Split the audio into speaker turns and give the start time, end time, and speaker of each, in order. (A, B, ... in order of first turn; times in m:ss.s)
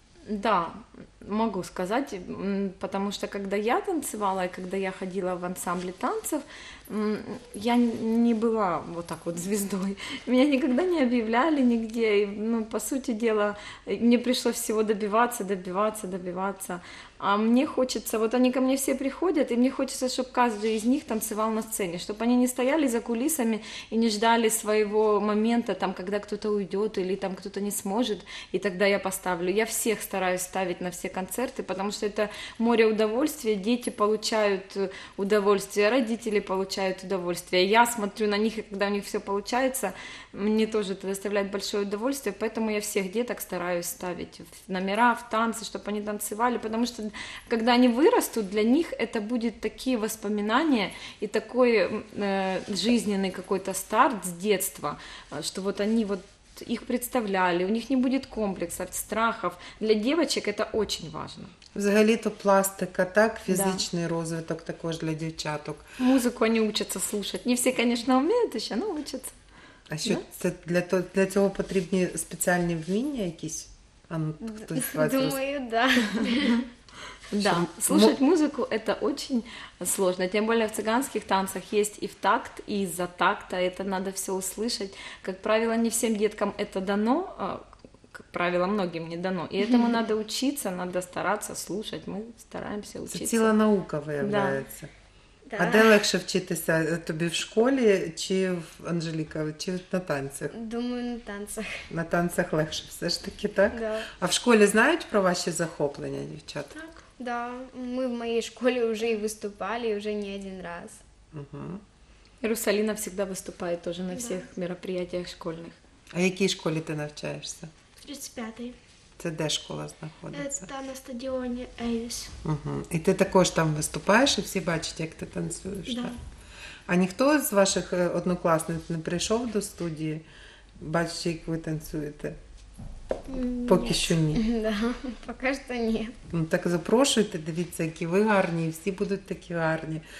0:00.3-1:01.5 A
1:01.8-1:05.9 B
1:03.5-1:03.8 A
1:06.0-1:09.3 A
1:09.9-1:15.4 B
1:14.4-1:16.6 C
1:17.3-1:33.5 A
1:17.4-1:18.1 B
1:33.1-1:34.9 B
1:34.2-1:34.6 A
1:35.5-1:36.0 C
1:35.6-1:40.5 B
1:40.5-1:41.8 C
1:41.9-1:46.8 B
1:43.7-1:44.1 C
1:47.2-1:51.0 C
1:51.3-1:51.8 B
1:52.4-1:55.8 A
1:54.1-1:54.5 D
1:56.1-1:57.7 B
1:58.0-1:58.8 D
1:59.2-2:00.7 B
2:00.3-2:02.3 D
2:02.4-2:06.2 B
2:05.9-2:06.2 D
2:06.9-2:10.2 B
2:10.8-2:12.4 B
2:13.3-2:14.1 D
2:13.6-2:14.4 B
2:14.3-2:16.2 C
2:16.3-2:20.0 B